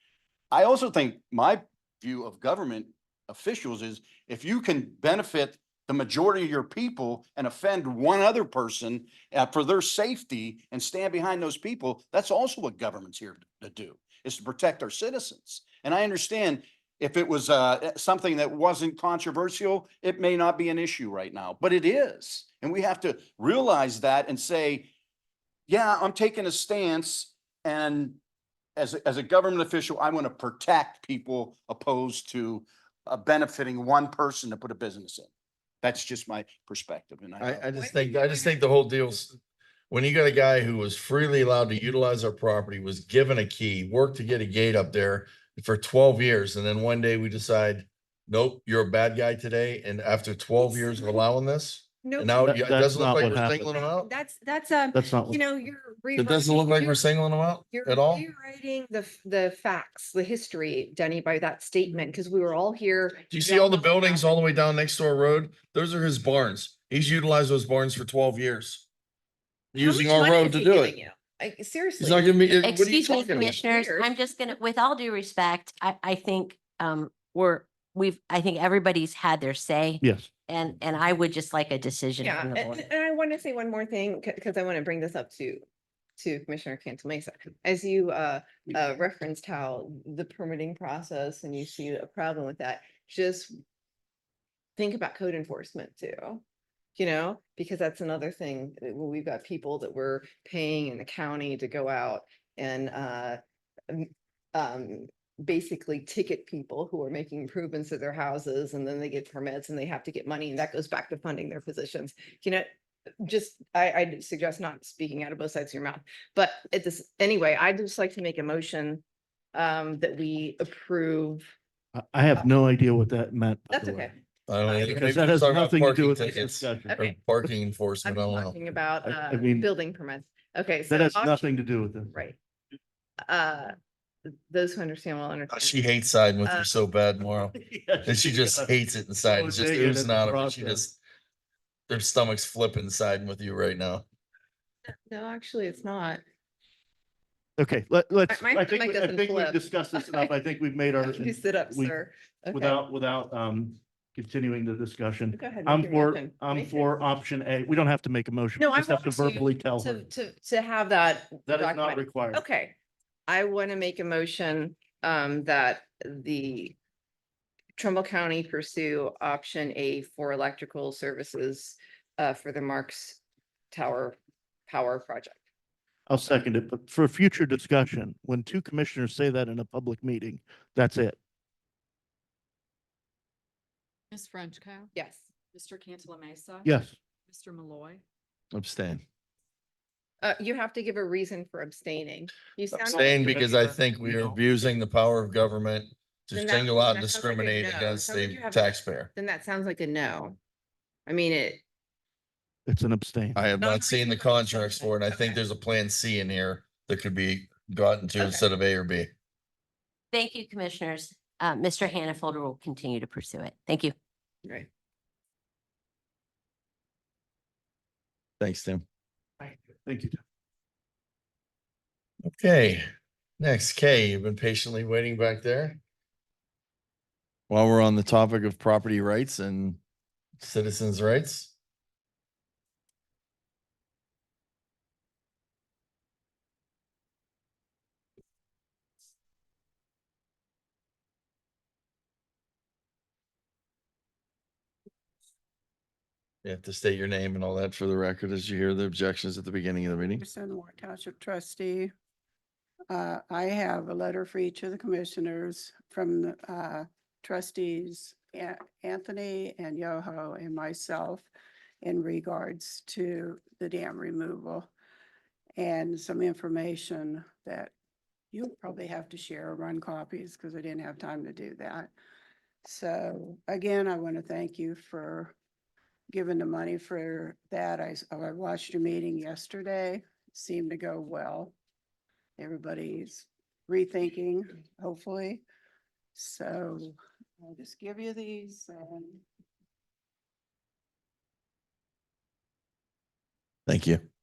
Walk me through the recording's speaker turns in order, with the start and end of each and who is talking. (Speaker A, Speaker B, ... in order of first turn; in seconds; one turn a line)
Speaker A: 0.5-24.9
Speaker A: 25.7-28.2
Speaker A: 28.8-35.3
Speaker A: 35.8-37.7
Speaker B: 37.4-39.4
Speaker C: 37.7-38.6
Speaker B: 39.9-54.1
Speaker C: 50.6-51.2
Speaker C: 52.0-52.5
Speaker D: 52.4-53.8
Speaker C: 53.1-57.1
Speaker D: 54.9-55.4
Speaker B: 56.1-58.2
Speaker C: 57.7-64.2
Speaker B: 63.3-68.8
Speaker B: 69.7-70.9
Speaker C: 69.8-74.1
Speaker B: 72.0-73.5
Speaker E: 72.6-82.8
Speaker D: 80.0-80.3
Speaker C: 82.2-85.6
Speaker C: 86.2-93.6
Speaker C: 94.8-96.4
Speaker C: 97.0-112.7
Speaker C: 113.2-119.0
Speaker C: 119.5-121.5
Speaker D: 121.9-124.1
Speaker C: 123.7-125.0
Speaker B: 124.5-128.5
Speaker D: 124.8-127.0
Speaker C: 126.9-127.2
Speaker C: 128.0-131.5
Speaker D: 129.0-129.7
Speaker D: 130.9-132.1
Speaker C: 132.1-132.4
Speaker C: 133.2-133.8
Speaker C: 134.3-135.9
Speaker B: 135.5-137.5
Speaker C: 136.4-136.7
Speaker D: 137.5-138.7
Speaker B: 138.1-140.9
Speaker D: 139.2-140.8
Speaker B: 141.9-144.1
Speaker C: 144.9-146.2
Speaker D: 147.6-151.9
Speaker C: 148.3-150.3
Speaker C: 151.0-152.8
Speaker D: 152.5-160.0
Speaker C: 155.3-156.9
Speaker C: 158.6-166.8
Speaker D: 161.5-162.4
Speaker C: 167.8-173.2
Speaker C: 173.7-175.3
Speaker D: 176.1-181.2
Speaker F: 184.1-184.9
Speaker C: 184.9-186.6
Speaker F: 185.5-188.0
Speaker D: 186.6-186.9
Speaker B: 188.5-189.0
Speaker C: 190.2-193.7
Speaker D: 192.8-194.4
Speaker B: 192.8-199.1
Speaker C: 196.3-200.4
Speaker C: 201.1-201.6
Speaker D: 202.7-203.4
Speaker B: 203.3-209.1
Speaker C: 203.6-205.4
Speaker C: 208.2-208.4
Speaker E: 210.1-213.9
Speaker B: 218.4-218.8
Speaker D: 219.4-220.2
Speaker B: 222.2-222.8
Speaker B: 223.4-225.8
Speaker B: 227.5-229.8
Speaker B: 230.4-231.5
Speaker B: 246.4-250.2
Speaker G: 250.2-251.9
Speaker G: 252.9-261.3
Speaker G: 261.8-264.7
Speaker G: 265.6-267.7
Speaker G: 268.3-271.9
Speaker G: 272.6-275.3
Speaker G: 276.1-281.5
Speaker G: 282.4-285.4
Speaker G: 286.1-289.2
Speaker B: 293.6-294.0